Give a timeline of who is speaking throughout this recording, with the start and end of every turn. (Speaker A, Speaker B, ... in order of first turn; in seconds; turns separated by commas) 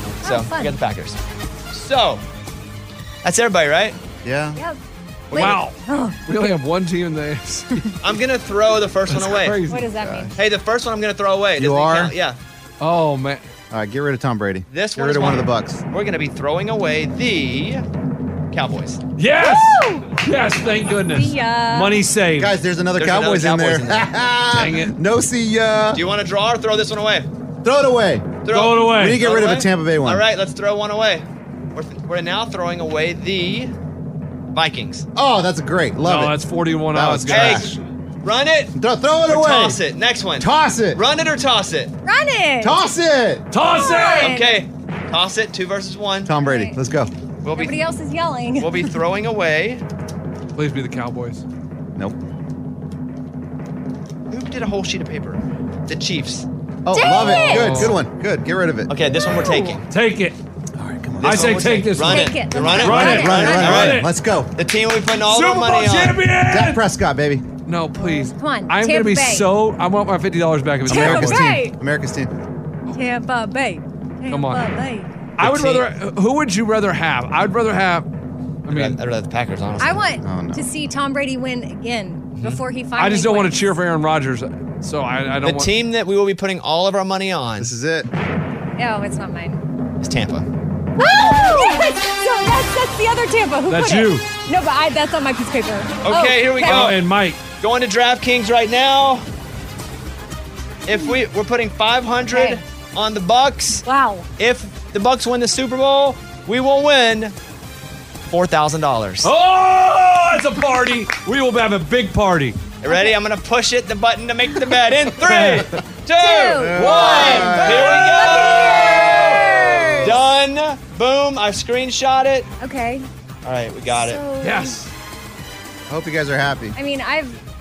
Speaker A: 0.2-1.2, Speaker B: 0.2-0.8, Speaker A: 1.7-2.2, Speaker A: 3.2-4.0, Speaker C: 4.2-4.6, Speaker A: 5.3-5.6, Speaker D: 5.3-7.8, Speaker B: 5.4-6.5, Speaker A: 8.0-9.6, Speaker D: 9.1-9.9, Speaker B: 9.7-10.3, Speaker C: 10.0-10.3, Speaker A: 10.4-12.4, Speaker C: 11.6-12.2, Speaker D: 12.8-13.4, Speaker C: 13.7-15.8, Speaker A: 14.7-17.9, Speaker A: 18.5-19.0, Speaker D: 19.2-22.6, Speaker B: 19.4-20.2, Speaker B: 21.1-22.0, Speaker C: 22.4-26.0, Speaker A: 23.0-24.1, Speaker D: 24.5-24.9, Speaker A: 25.9-27.3, Speaker C: 27.6-30.2, Speaker A: 28.4-33.7, Speaker D: 28.5-29.2, Speaker A: 34.5-35.1, Speaker C: 35.1-37.8, Speaker D: 36.0-37.8, Speaker A: 37.3-38.7, Speaker C: 38.8-39.8, Speaker A: 39.3-41.9, Speaker C: 40.4-41.0, Speaker B: 42.0-42.8, Speaker C: 42.6-43.5, Speaker D: 43.5-44.4, Speaker B: 43.6-44.5, Speaker A: 44.1-46.3, Speaker C: 46.2-47.1, Speaker B: 46.4-46.8, Speaker A: 47.4-47.8, Speaker B: 47.6-48.9, Speaker A: 48.6-49.8, Speaker D: 50.5-51.4, Speaker A: 54.3-56.5, Speaker C: 56.9-58.9, Speaker B: 56.9-57.8, Speaker D: 57.5-58.0, Speaker A: 58.9-59.9, Speaker D: 59.9-60.4, Speaker C: 60.8-61.7, Speaker A: 61.2-66.2, Speaker D: 61.2-64.1, Speaker B: 62.0-63.6, Speaker C: 62.8-64.5, Speaker D: 65.2-66.8, Speaker C: 66.5-67.5, Speaker D: 67.7-71.5, Speaker B: 68.0-69.5, Speaker C: 70.8-72.3, Speaker B: 70.9-71.7, Speaker B: 72.9-75.1, Speaker D: 74.3-74.7, Speaker D: 75.4-78.1, Speaker A: 75.4-75.9, Speaker D: 78.7-79.0, Speaker A: 78.7-80.0, Speaker B: 79.8-83.6, Speaker C: 80.2-80.7, Speaker D: 83.0-85.7, Speaker A: 85.4-87.7, Speaker C: 87.6-88.1, Speaker B: 88.8-89.6, Speaker A: 90.0-90.5, Speaker B: 91.0-96.9, Speaker D: 93.7-94.3, Speaker A: 96.0-99.3, Speaker D: 96.6-97.5, Speaker A: 100.9-103.8, Speaker B: 102.3-102.6, Speaker B: 103.8-104.3, Speaker A: 104.4-107.3, Speaker A: 108.3-109.3, Speaker D: 109.2-112.7, Speaker A: 112.8-119.4, Speaker D: 115.2-115.8, Speaker B: 116.2-120.0, Speaker C: 116.6-120.2, Speaker D: 116.7-117.7, Speaker A: 120.0-122.5, Speaker B: 122.6-123.1, Speaker A: 123.4-124.2, Speaker B: 123.9-124.8, Speaker D: 124.4-124.9, Speaker C: 125.9-126.8, Speaker B: 126.8-127.4